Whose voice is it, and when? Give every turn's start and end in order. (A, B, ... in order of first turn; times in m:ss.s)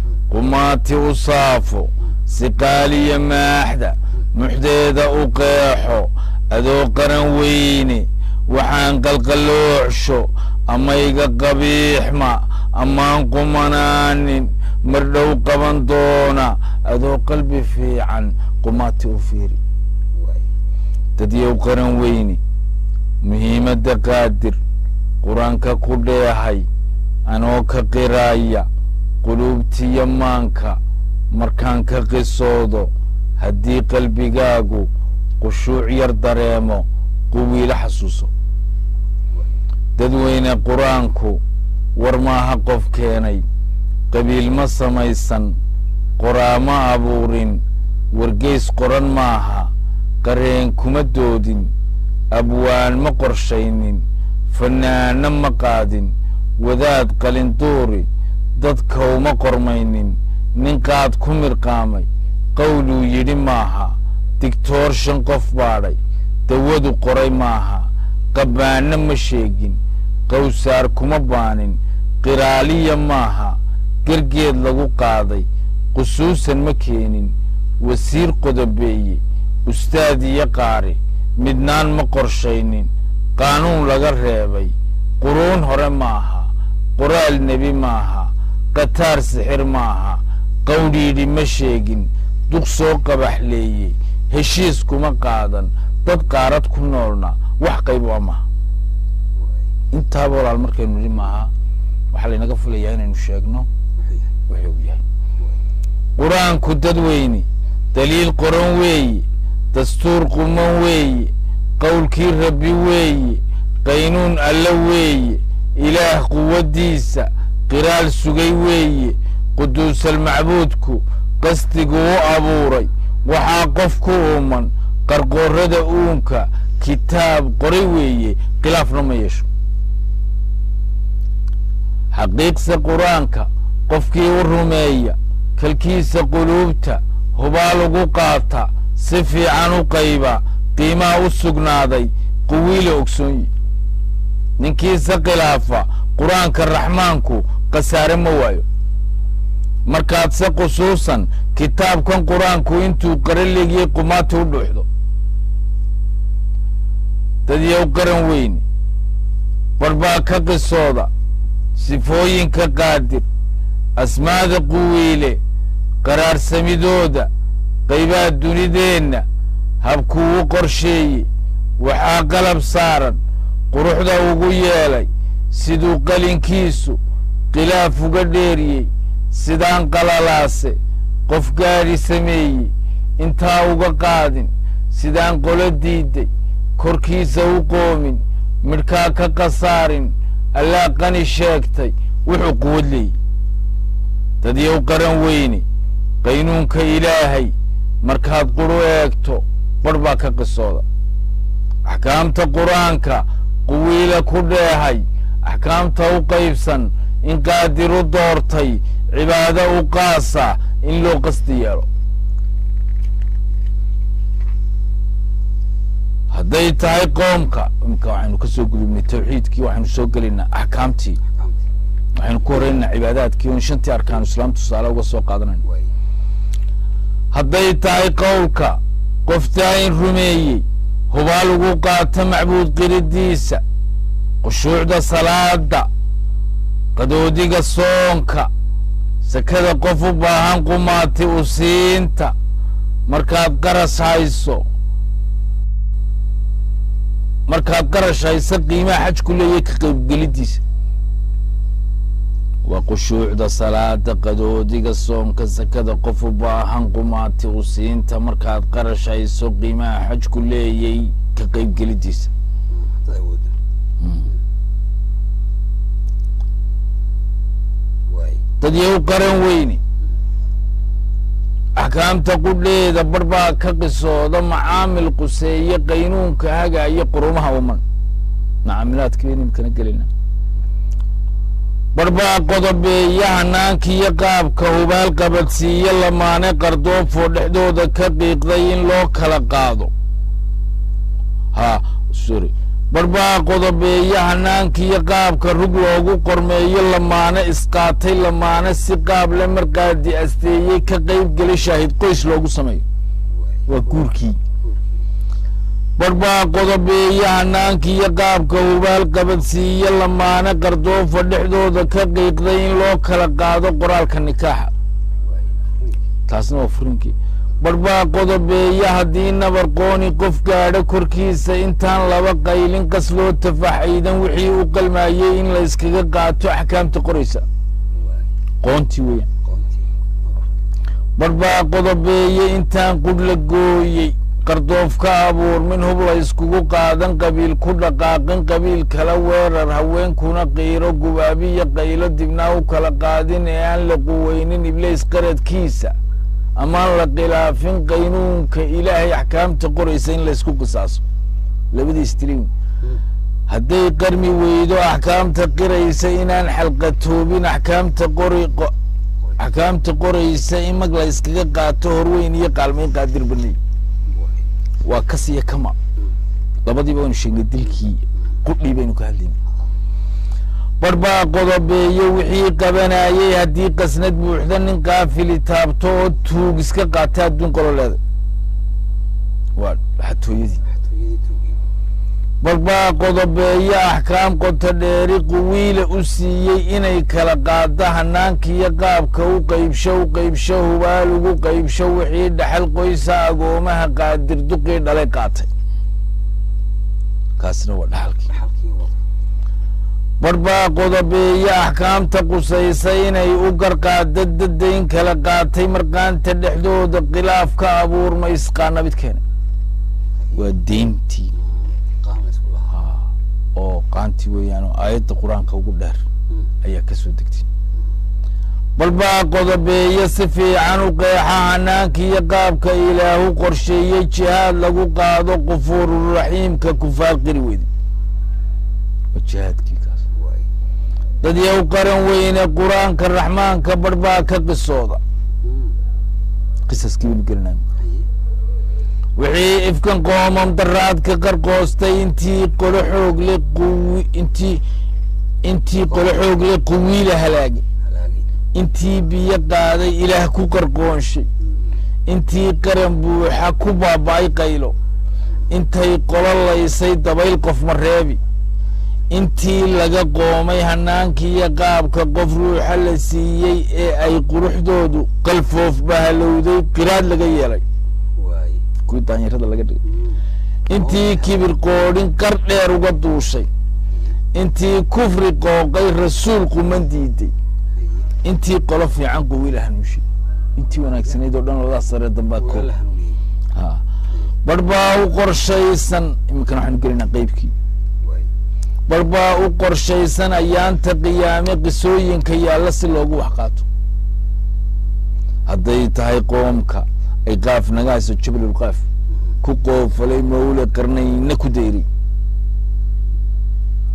0:00.3-0:19.6 A
0:20.2-0:20.5 B
0:21.2-0:22.4 A
0:23.2-0:24.6 A
0:25.2-0:26.7 A
0:27.3-0:28.7 A
0:29.2-0:30.8 A
0:31.3-0:34.9 A
0:35.4-0:38.3 A
0:40.0-0:41.4 A
0:42.0-0:43.4 A
0:44.1-0:45.6 A
0:46.2-0:47.6 A
0:48.1-0:49.7 A
0:50.2-0:51.7 A
0:52.3-1:38.4 A
1:39.4-1:39.6 B
1:39.9-1:41.5 A
1:42.1-1:43.7 A
1:44.0-1:44.3 B
1:44.5-1:45.0 A
1:46.2-2:09.5 A
2:12.1-2:23.5 A
2:24.6-2:28.6 A
2:29.9-2:34.9 A
2:37.5-2:38.6 A
2:39.8-2:41.1 A
2:41.8-2:43.3 A
2:44.0-2:45.4 A
2:46.0-2:47.3 A
2:47.9-2:49.2 A
2:49.8-2:51.3 A
2:51.8-2:53.2 A
2:53.7-2:57.0 A
2:57.5-3:13.2 A
3:14.4-3:15.6 A
3:16.2-3:20.8 A
3:21.9-3:31.9 A
3:36.3-3:41.2 A
3:41.2-3:41.6 B
3:42.2-3:45.6 A
3:45.6-3:45.9 B
3:47.3-3:53.6 A
3:54.4-3:55.9 A
3:57.0-3:58.5 A
3:59.2-4:02.3 A
4:03.1-4:04.6 A
4:07.5-4:10.6 A
4:12.6-4:22.3 A
4:22.7-4:23.6 B
4:24.0-4:24.3 A
4:28.1-4:28.4 B
4:28.6-4:29.8 A
4:31.8-4:37.8 A
4:38.6-4:40.1 A
4:41.9-4:49.9 A
4:51.5-5:02.8 A
5:03.3-5:04.0 B
5:03.7-5:04.4 A
5:04.6-5:05.0 B
5:06.0-5:14.7 A
5:15.2-5:15.8 B
5:16.3-5:27.4 A
5:27.9-5:28.3 B
5:28.6-5:29.3 A
5:29.4-5:30.4 B
5:31.2-5:45.9 A
5:46.6-5:51.0 A
5:51.7-5:52.5 A
5:53.5-5:58.7 A
5:59.4-6:03.6 A
6:04.1-6:04.4 B
6:04.8-6:05.8 A
6:06.6-6:09.4 A
6:10.8-6:18.0 A
6:19.6-6:20.6 A
6:20.6-6:21.6 B
6:22.4-6:35.5 A
6:37.4-6:38.3 A
6:38.3-6:39.0 B
6:40.2-6:49.2 A
6:50.3-6:51.3 A
6:51.6-6:52.7 B
6:52.7-6:56.0 A
6:56.6-6:57.5 A
6:58.8-7:07.7 A
7:09.1-7:10.0 A
7:10.1-7:10.5 B
7:11.2-7:15.0 A
7:15.4-7:15.8 B
7:16.7-7:17.6 A
7:17.8-7:18.1 B
7:19.2-7:24.6 A
7:25.4-7:27.6 A
7:27.8-7:28.3 B
7:28.5-7:31.3 A
7:31.4-7:31.8 B
7:32.1-7:34.8 A
7:35.5-7:38.2 A
7:39.1-7:47.6 A
7:48.2-7:48.6 B
7:48.8-7:49.8 A
7:49.8-7:51.3 B
7:50.7-7:53.5 A
7:53.9-7:54.2 B
7:54.3-7:57.3 A
7:57.8-7:58.1 B
7:58.2-8:00.0 A
8:00.6-8:02.7 A
8:02.4-8:03.2 B
8:03.6-8:03.8 A
8:04.4-8:07.5 A
8:08.0-8:08.3 B
8:08.9-8:13.7 A
8:15.5-8:18.8 A
8:19.4-8:21.9 A